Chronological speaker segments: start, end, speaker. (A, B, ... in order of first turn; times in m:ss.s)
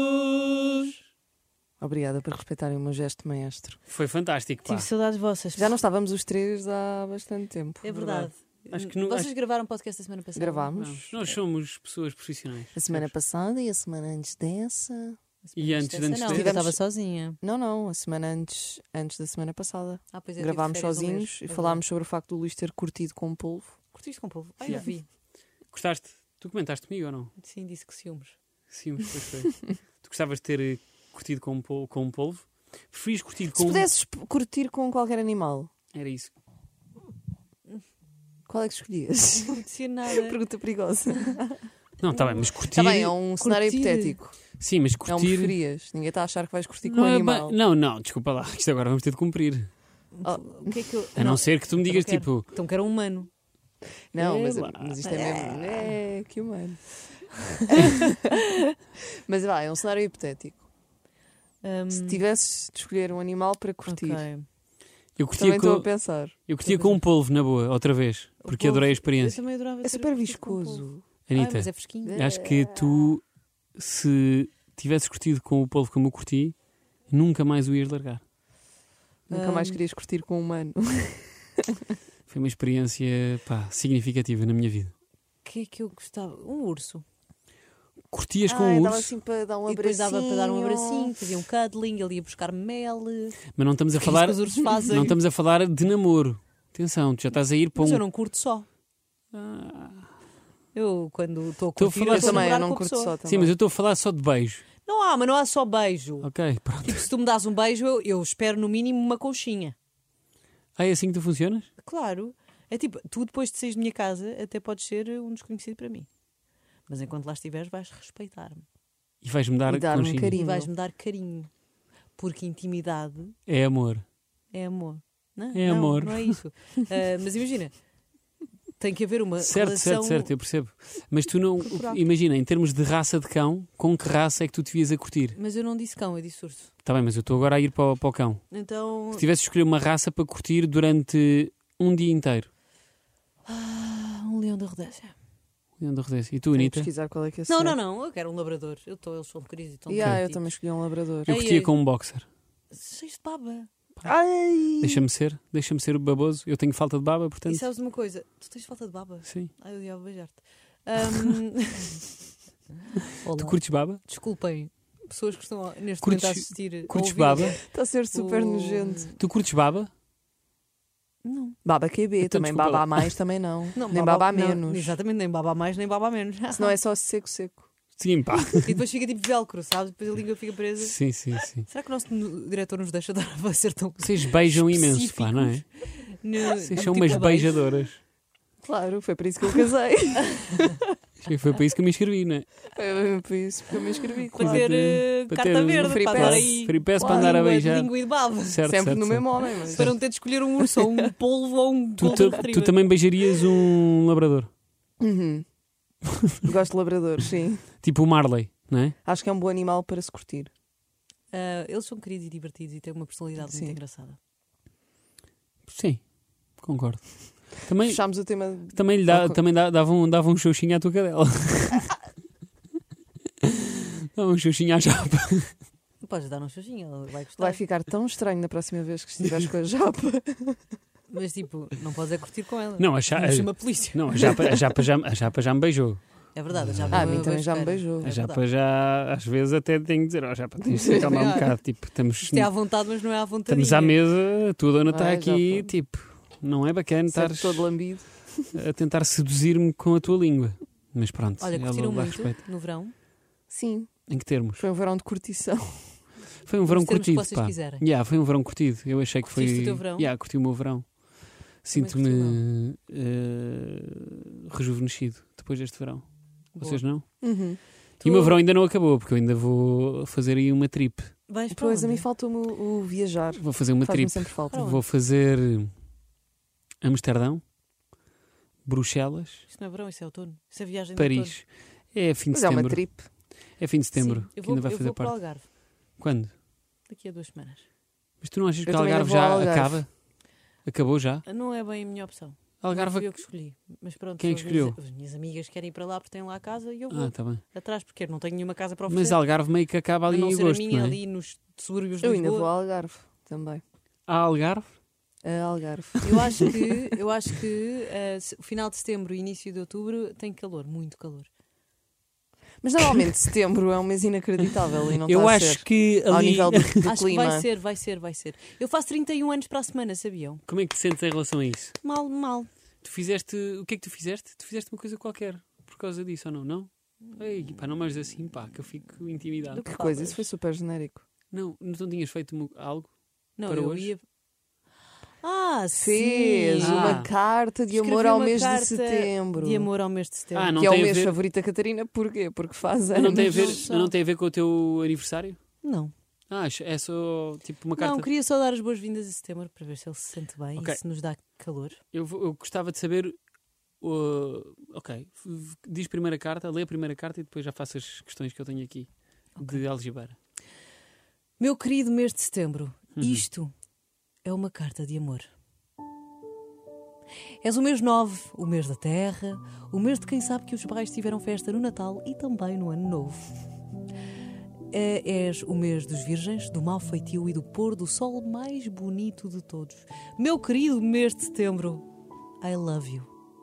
0:01.8-0:03.8 A
0:03.9-0:04.9 B
0:04.6-0:05.8 C
0:05.6-0:07.9 A
0:07.8-0:10.7 C
0:07.9-0:09.3 B
0:10.4-0:11.3 A
0:10.8-0:13.1 B
0:12.7-0:15.2 A
0:15.4-0:17.4 C
0:15.6-0:16.5 B
0:16.3-0:16.8 A
0:17.4-0:23.8 A
0:20.1-0:21.8 C
0:23.9-0:25.1 C
0:25.7-0:27.3 B
0:27.4-0:28.4 C
0:28.7-0:33.9 B
0:33.6-0:35.7 A
0:35.9-0:36.3 B
0:38.5-0:41.7 A
0:39.5-0:40.4 C
0:42.0-0:43.2 B
0:42.6-0:44.4 A
0:43.4-0:44.2 C
0:44.6-0:45.6 B
0:45.0-0:47.6 A
0:46.8-0:49.7 B
0:50.1-0:53.3 C
0:50.2-0:50.9 A
0:51.2-0:52.4 B
0:54.1-0:58.2 A
0:54.2-0:55.0 B
0:55.0-0:56.0 C
0:59.3-1:00.6 A
1:01.6-1:02.2 C
1:01.9-1:04.2 A
1:03.9-1:04.5 C
1:05.2-1:09.4 B
1:05.4-1:06.5 A
1:06.6-1:07.0 C
1:08.4-1:12.2 C
1:09.8-1:11.0 A
1:11.3-1:13.2 B
1:12.1-1:13.1 A
1:13.8-1:16.6 B
1:17.1-1:18.2 B
1:19.3-1:21.8 A
1:19.3-1:19.8 C
1:22.3-1:24.9 B
1:25.4-1:27.0 C
1:28.1-1:29.2 B
1:28.4-1:31.2 A
1:29.7-1:33.4 C
1:33.6-1:38.0 B
1:34.0-1:35.2 C
1:37.8-1:38.7 C
1:39.3-1:40.1 B
1:40.7-1:43.2 C
1:41.8-1:42.6 B
1:42.1-1:43.6 A
1:43.3-1:44.6 B
1:44.8-1:49.8 C
1:46.2-1:47.1 B
1:50.8-1:51.7 B
1:51.8-1:56.1 C
1:56.9-1:58.6 C
1:59.2-2:00.4 B
1:59.7-2:00.7 A
2:00.3-2:01.5 C
2:02.2-2:03.4 C
2:03.5-2:04.0 B
2:04.5-2:07.8 C
2:05.5-2:06.4 B
2:08.8-2:10.3 C
2:09.4-2:15.4 B
2:11.6-2:12.0 A
2:15.4-2:16.7 C
2:16.8-2:22.5 B
2:18.5-2:19.3 C
2:23.4-2:25.1 C
2:25.8-2:26.9 B
2:26.5-2:27.8 A
2:27.5-2:30.6 C
2:29.9-2:31.3 A
2:31.3-2:32.3 B
2:31.3-2:31.8 C
2:32.7-2:33.7 C
2:34.0-2:35.1 A
2:34.8-2:37.6 B
2:37.5-2:42.0 C
2:39.3-2:39.5 B
2:43.2-2:49.2 C
2:43.3-2:44.0 B
2:46.0-2:47.6 B
2:47.6-2:49.1 A
2:49.2-2:49.9 B
2:51.2-2:51.6 C
2:51.6-2:55.0 A
2:52.2-2:53.2 B
2:53.8-2:56.8 C
2:56.5-2:57.7 A
2:58.0-2:58.8 B
2:58.6-3:01.0 C
3:00.8-3:01.7 B
3:01.5-3:07.6 C
3:04.0-3:05.7 B
3:06.6-3:08.0 B
3:08.6-3:10.9 A
3:11.2-3:12.5 B
3:12.7-3:14.7 A
3:14.4-3:18.6 C
3:14.4-3:20.0 B
3:15.8-3:17.4 A
3:18.7-3:19.9 A
3:19.7-3:22.9 C
3:20.6-3:21.1 A
3:22.0-3:24.5 B
3:25.0-3:25.4 A
3:26.4-3:27.7 A
3:27.8-3:29.0 B
3:29.0-3:30.5 A
3:31.3-3:34.2 C
3:33.4-3:33.8 A
3:35.7-3:36.0 B
3:36.6-3:42.0 B
3:37.8-3:39.4 A
3:44.2-3:45.6 B
3:46.0-3:47.6 C
3:47.4-3:50.7 A
3:51.1-3:54.4 C
3:52.8-3:56.0 B
3:56.4-3:58.4 C
3:56.6-3:57.2 B
3:56.9-3:58.1 A
3:58.0-4:02.7 B
4:00.6-4:01.4 A
4:00.9-4:04.0 C
4:03.5-4:12.4 B
4:04.9-4:05.7 A
4:07.1-4:08.5 A
4:11.4-4:12.9 C
4:13.5-4:16.0 A
4:14.1-4:14.7 B
4:16.4-4:31.1 B
4:16.7-4:17.8 C
4:19.2-4:20.1 C
4:21.7-4:22.4 C
4:26.6-4:26.8 C
4:27.2-4:28.4 A
4:31.3-4:32.1 C
4:31.5-4:34.6 A
4:33.4-4:35.7 B
4:34.5-4:34.8 C
4:36.8-4:37.4 B
4:38.6-4:39.5 B
4:39.5-4:41.4 C
4:41.0-4:43.0 B
4:42.3-4:43.1 A
4:43.6-4:45.3 B
4:43.9-4:45.5 C
4:46.0-4:46.3 B
4:46.9-4:47.6 C
4:48.2-4:49.9 B
4:48.6-4:49.8 A
4:50.6-4:51.2 B
4:51.2-4:59.2 C
4:52.6-4:53.2 B
4:54.2-4:54.8 B
4:56.9-4:57.4 B
4:58.9-5:01.0 B
5:00.1-5:02.5 C
5:02.0-5:03.6 A
5:04.1-5:04.7 B
5:05.2-5:06.6 A
5:06.0-5:11.3 C
5:12.6-5:17.5 A
5:15.0-5:17.0 B
5:16.8-5:20.4 C
5:20.5-5:21.8 B
5:21.8-5:22.5 C
5:22.8-5:29.6 B
5:29.5-5:30.2 C
5:29.6-5:31.0 A
5:31.3-5:32.9 B
5:33.4-5:34.0 C
5:33.4-5:33.9 B
5:35.2-5:37.0 C
5:35.8-5:39.7 A
5:36.6-5:37.1 B
5:37.7-5:40.6 C
5:40.3-5:41.2 B
5:40.6-5:43.6 A
5:42.9-5:45.4 B
5:43.1-5:43.9 C
5:45.6-5:45.9 C
5:46.3-5:48.1 B
5:47.8-5:51.8 C
5:51.9-5:53.2 B
5:53.8-6:00.2 B
5:59.4-5:59.6 C
6:01.4-6:03.5 C
6:03.0-6:03.2 B
6:04.2-6:05.3 C
6:07.4-6:13.3 C
6:14.7-6:21.9 C
6:22.4-6:23.1 C